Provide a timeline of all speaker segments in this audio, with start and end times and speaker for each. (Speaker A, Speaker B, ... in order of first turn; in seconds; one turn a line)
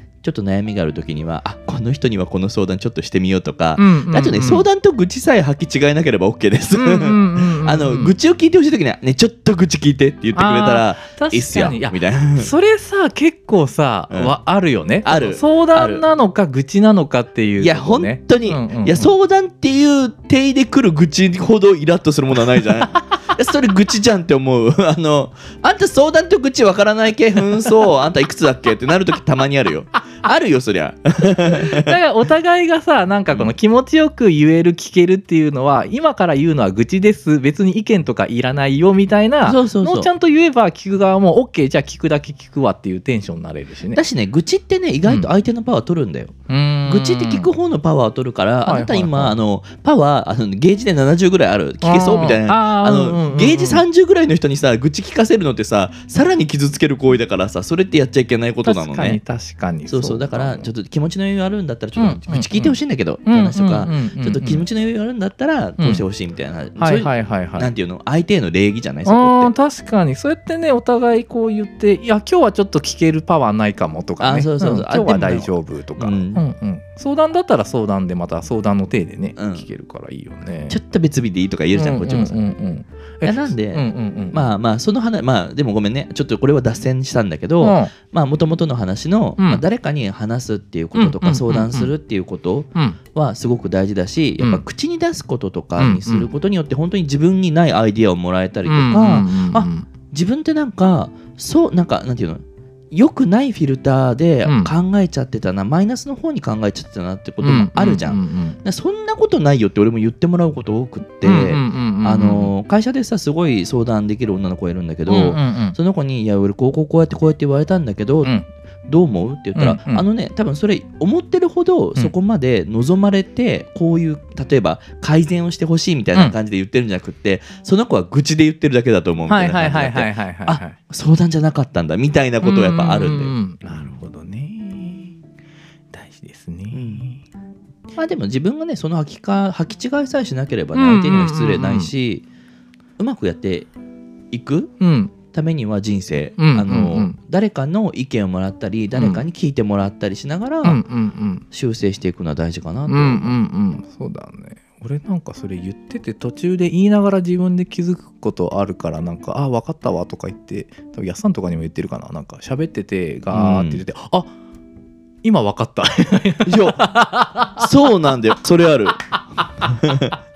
Speaker A: 0.2-12.5
Speaker B: 3.8-4.7
Speaker B: 6.7-8.1
Speaker B: 10.3-19.1
Speaker A: 15.0-16.0
Speaker A: 17.6-31.9
Speaker B: 31.4-44.0
Speaker A: 39.4-40.1
Speaker A: 43.9-46.3
Speaker B: 45.0-45.3
Speaker B: 46.5-47.5
Speaker A: 46.9-59.2
Speaker B: 48.6-49.4
Speaker B: 51.8-53.8
Speaker B: 58.6-60.7
Speaker A: 59.9-69.5
Speaker B: 62.0-64.6
Speaker B: 65.8-66.0
Speaker B: 66.8-67.7
Speaker B: 69.0-80.8
Speaker A: 74.2-76.4
Speaker A: 79.3-79.7
Speaker A: 80.7-82.4
Speaker B: 81.7-84.5
Speaker A: 83.2-118.3
Speaker B: 87.6-87.9
Speaker B: 89.4-89.6
Speaker B: 90.9-91.9
Speaker B: 94.4-94.6
Speaker B: 95.8-96.3
Speaker B: 98.7-99.9
Speaker B: 104.4-104.7
Speaker B: 107.4-108.6
Speaker B: 111.2-112.5
Speaker B: 115.1-115.8
Speaker A: 118.9-133.9
Speaker B: 119.5-120.0
Speaker B: 129.3-130.8
Speaker B: 132.4-135.2
Speaker B: 135.9-137.2
Speaker A: 136.7-137.0
Speaker A: 137.9-142.2
Speaker B: 140.7-141.9
Speaker A: 143.0-143.7
Speaker A: 144.3-144.7
Speaker B: 144.8-145.1
Speaker A: 145.3-150.8
Speaker B: 146.4-147.2
Speaker B: 148.9-149.2
Speaker B: 150.6-151.4
Speaker A: 151.5-153.4
Speaker B: 152.9-164.3
Speaker A: 163.3-163.8
Speaker B: 165.2-167.7
Speaker A: 166.4-166.9
Speaker A: 167.6-170.1
Speaker B: 169.4-169.7